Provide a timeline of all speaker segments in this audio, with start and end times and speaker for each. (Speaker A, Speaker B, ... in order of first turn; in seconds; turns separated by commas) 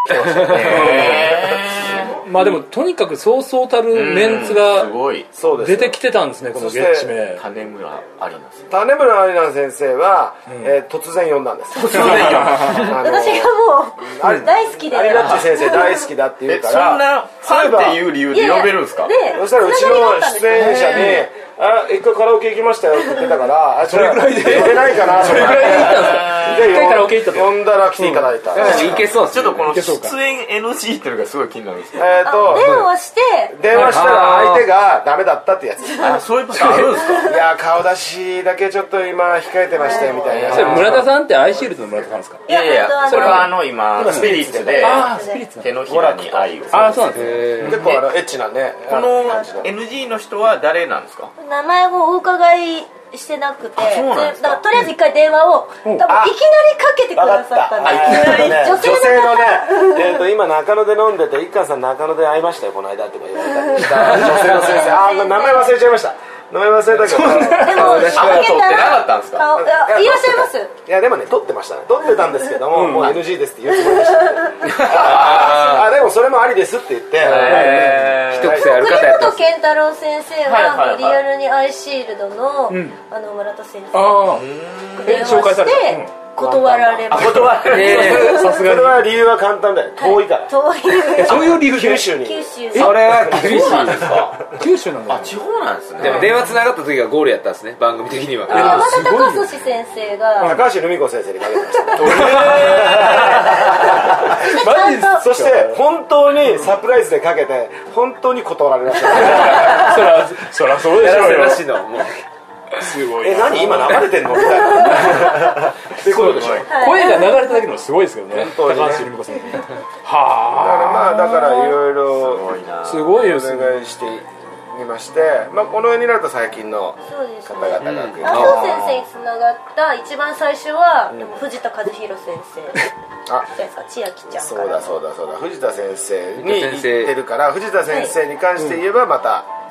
Speaker A: 0.4-2.2, Speaker B: 0.6-1.3, Speaker C: 0.7-1.1, Speaker B: 2.2-4.9, Speaker A: 3.9-5.3, Speaker C: 5.3-6.0, Speaker B: 5.6-7.4, Speaker C: 6.5-7.1, Speaker A: 7.3-8.7, Speaker C: 8.7-18.1, Speaker A: 11.8-13.0, Speaker B: 12.4-12.7, Speaker D: 12.7-16.0, Speaker A: 15.1-15.4, Speaker A: 16.5-19.1, Speaker D: 18.3-21.2, Speaker C: 19.3-29.0, Speaker B: 20.9-21.2, Speaker B: 23.8-28.3, Speaker A: 25.6-26.7, Speaker E: 28.5-29.7, Speaker A: 28.6-32.1, Speaker B: 29.7-30.1, Speaker C: 31.9-32.8, Speaker D: 32.2-33.5, Speaker E: 32.5-32.9, Speaker C: 33.5-41.1, Speaker B: 33.7-34.1, Speaker E: 33.7-34.6, Speaker A: 36.0-37.3, Speaker B: 36.5-37.1, Speaker D: 39.8-40.4, Speaker A: 40.2-41.0, Speaker B: 40.5-42.4, Speaker D: 42.5-43.5, Speaker A: 42.5-47.4, Speaker B: 43.0-44.3, Speaker C: 43.9-45.1, Speaker D: 44.8-45.4, Speaker B: 44.8-45.8, Speaker C: 45.8-49.7, Speaker B: 46.7-47.9, Speaker E: 47.1-47.9, Speaker A: 48.9-51.3, Speaker D: 51.4-60.0, Speaker A: 53.8-54.6, Speaker C: 56.0-56.4, Speaker C: 57.1-68.0, Speaker A: 58.2-58.5, Speaker D: 63.8-65.8, Speaker B: 67.1-67.6, Speaker D: 67.2-70.7, Speaker E: 67.6-68.6, Speaker A: 67.8-69.6, Speaker C: 69.5-78.6, Speaker B: 72.7-73.2, Speaker D: 73.9-74.5, Speaker E: 74.7-75.9, Speaker A: 75.2-75.5, Speaker E: 77.2-79.5, Speaker A: 77.2-78.7, Speaker B: 77.4-78.1, Speaker D: 78.5-84.4, Speaker A: 80.5-81.2, Speaker B: 82.7-83.0, Speaker B: 83.9-84.5, Speaker A: 84.3-85.3, Speaker D: 84.9-88.5, Speaker B: 85.0-86.1, Speaker C: 86.4-90.5, Speaker A: 87.1-88.4, Speaker B: 87.1-89.1, Speaker E: 87.6-88.4, Speaker D: 90.0-93.9, Speaker B: 91.1-92.1, Speaker C: 91.2-94.2, Speaker E: 92.7-94.1, Speaker B: 92.7-95.3, Speaker A: 93.4-94.5, Speaker A: 95.0-96.4, Speaker E: 96.0-98.8, Speaker B: 98.5-99.5, Speaker D: 98.5-100.6, Speaker A: 98.5-98.8, Speaker C: 100.4-104.5, Speaker A: 102.0-103.1, Speaker B: 102.0-105.8, Speaker D: 103.3-103.7, Speaker D: 104.3-105.2, Speaker C: 105.2-110.1, Speaker B: 109.2-111.6, Speaker E: 110.9-112.2, Speaker B: 112.8-121.7, Speaker C: 113.2-116.7, Speaker A: 116.1-116.7, Speaker D: 116.7-117.6, Speaker C: 118.3-119.1, Speaker C: 120.5-122.5, Speaker A: 122.1-123.2, Speaker B: 122.8-123.8, Speaker C: 123.1-128.8, Speaker D: 127.1-132.9, Speaker E: 127.8-128.7, Speaker A: 128.3-129.0, Speaker D: 133.4-135.0, Speaker C: 134.3-139.5, Speaker E: 136.4-137.1, Speaker D: 137.9-138.1